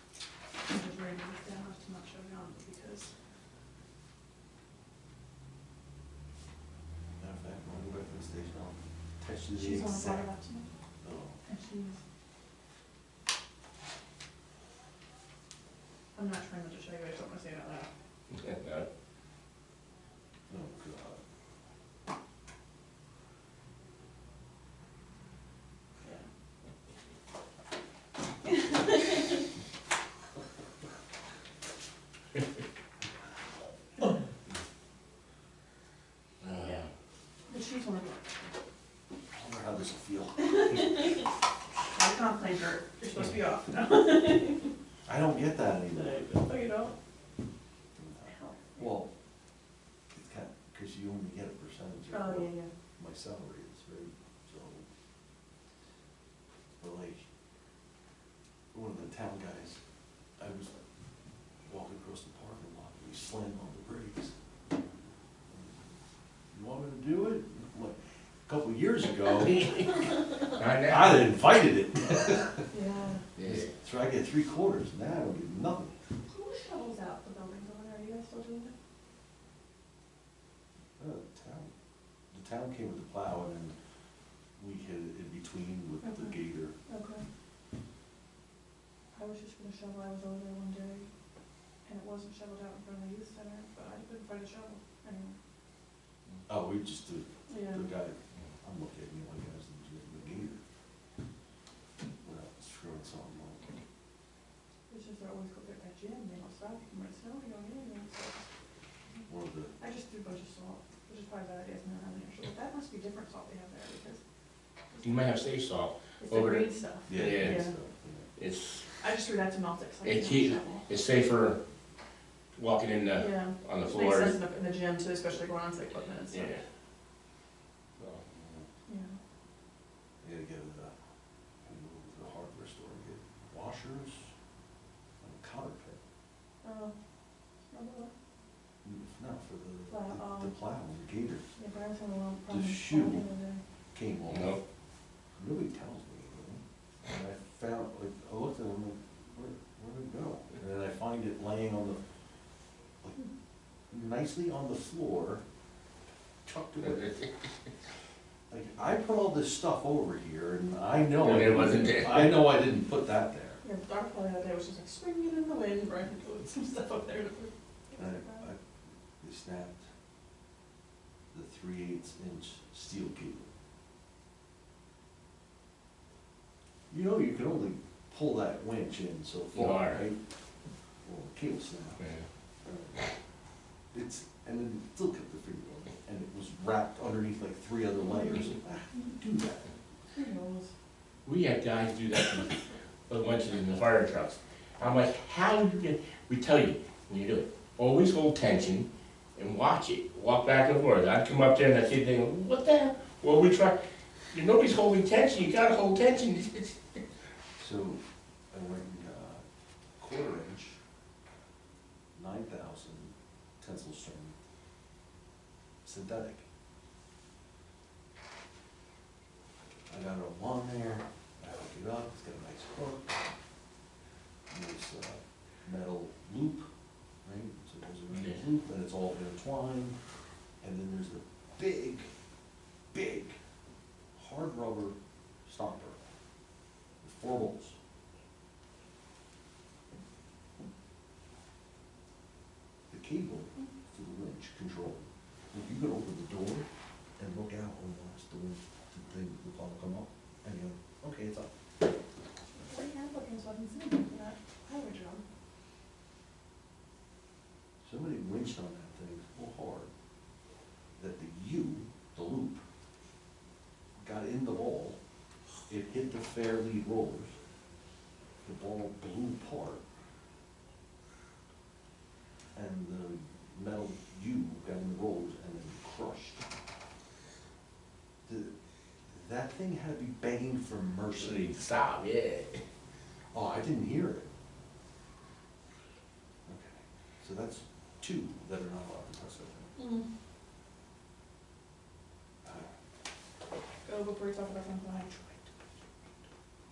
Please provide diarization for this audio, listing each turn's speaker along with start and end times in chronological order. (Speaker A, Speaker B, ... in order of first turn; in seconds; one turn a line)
Speaker A: 0.6-3.1
Speaker B: 7.2-10.3
Speaker A: 9.5-10.7
Speaker B: 11.0-11.4
Speaker A: 11.5-12.0
Speaker A: 16.1-17.9
Speaker C: 18.3-18.9
Speaker B: 20.5-21.2
Speaker C: 36.4-36.9
Speaker A: 37.5-38.4
Speaker B: 39.3-41.1
Speaker A: 40.7-41.0
Speaker A: 41.9-44.7
Speaker B: 45.1-46.3
Speaker A: 45.9-46.9
Speaker B: 48.0-49.1
Speaker A: 48.3-48.8
Speaker B: 50.1-54.8
Speaker A: 52.1-52.7
Speaker B: 56.8-57.2
Speaker B: 58.7-59.8
Speaker B: 60.4-60.8
Speaker B: 61.7-64.3
Speaker B: 65.5-65.9
Speaker B: 66.5-72.7
Speaker C: 70.4-71.3
Speaker A: 72.7-73.2
Speaker C: 73.4-73.7
Speaker B: 73.4-75.9
Speaker A: 76.3-78.7
Speaker B: 81.0-81.7
Speaker B: 82.3-83.8
Speaker B: 84.6-86.7
Speaker A: 86.0-86.3
Speaker A: 86.9-87.2
Speaker A: 89.1-91.1
Speaker A: 91.8-95.4
Speaker B: 96.5-100.6
Speaker A: 97.5-97.8
Speaker B: 102.2-103.6
Speaker A: 104.9-108.4
Speaker B: 109.3-109.8
Speaker A: 109.8-114.2
Speaker A: 114.9-115.3
Speaker C: 115.0-117.6
Speaker A: 116.2-117.7
Speaker B: 117.1-118.3
Speaker C: 118.4-118.9
Speaker A: 119.0-120.9
Speaker C: 120.0-121.6
Speaker C: 122.5-124.3
Speaker A: 123.2-126.6
Speaker C: 126.3-126.6
Speaker C: 128.0-128.3
Speaker B: 128.3-128.6
Speaker A: 128.9-129.2
Speaker B: 130.2-130.9
Speaker B: 131.6-134.3
Speaker B: 135.2-136.0
Speaker A: 136.6-136.9
Speaker A: 137.7-138.1
Speaker B: 138.8-141.5
Speaker A: 139.9-140.5
Speaker A: 141.6-143.6
Speaker B: 142.5-143.2
Speaker B: 143.9-144.6
Speaker C: 144.3-144.6
Speaker B: 145.4-152.0
Speaker B: 153.9-155.4
Speaker B: 156.4-157.2
Speaker C: 156.8-157.3
Speaker B: 158.5-163.6
Speaker C: 161.2-162.4
Speaker A: 163.6-168.4
Speaker B: 168.0-168.6
Speaker B: 169.2-169.8
Speaker B: 171.3-173.5
Speaker B: 176.9-180.2
Speaker C: 179.5-180.0
Speaker B: 181.0-182.0
Speaker C: 182.0-182.2
Speaker B: 182.6-183.1
Speaker B: 183.9-189.7
Speaker A: 190.2-190.7
Speaker C: 191.2-203.8
Speaker C: 204.3-207.0
Speaker B: 207.6-209.4
Speaker B: 210.0-210.8
Speaker B: 212.2-214.3
Speaker B: 215.8-216.4
Speaker B: 219.9-223.2
Speaker B: 224.5-226.7
Speaker B: 227.2-229.9
Speaker C: 228.1-228.4
Speaker B: 230.6-232.1
Speaker B: 232.9-233.4
Speaker B: 234.2-236.0
Speaker B: 237.0-237.8
Speaker B: 242.9-246.7
Speaker B: 247.2-251.5
Speaker A: 252.6-255.2
Speaker B: 257.8-259.9
Speaker B: 261.0-262.6
Speaker B: 264.0-265.0
Speaker B: 265.7-267.4
Speaker B: 268.4-269.8
Speaker B: 272.6-276.5
Speaker B: 278.3-278.5
Speaker B: 279.1-281.5
Speaker C: 281.2-282.6
Speaker B: 283.3-284.3
Speaker B: 286.5-289.7
Speaker A: 289.8-290.1
Speaker B: 292.4-292.7
Speaker A: 293.9-295.1
Speaker B: 294.9-295.4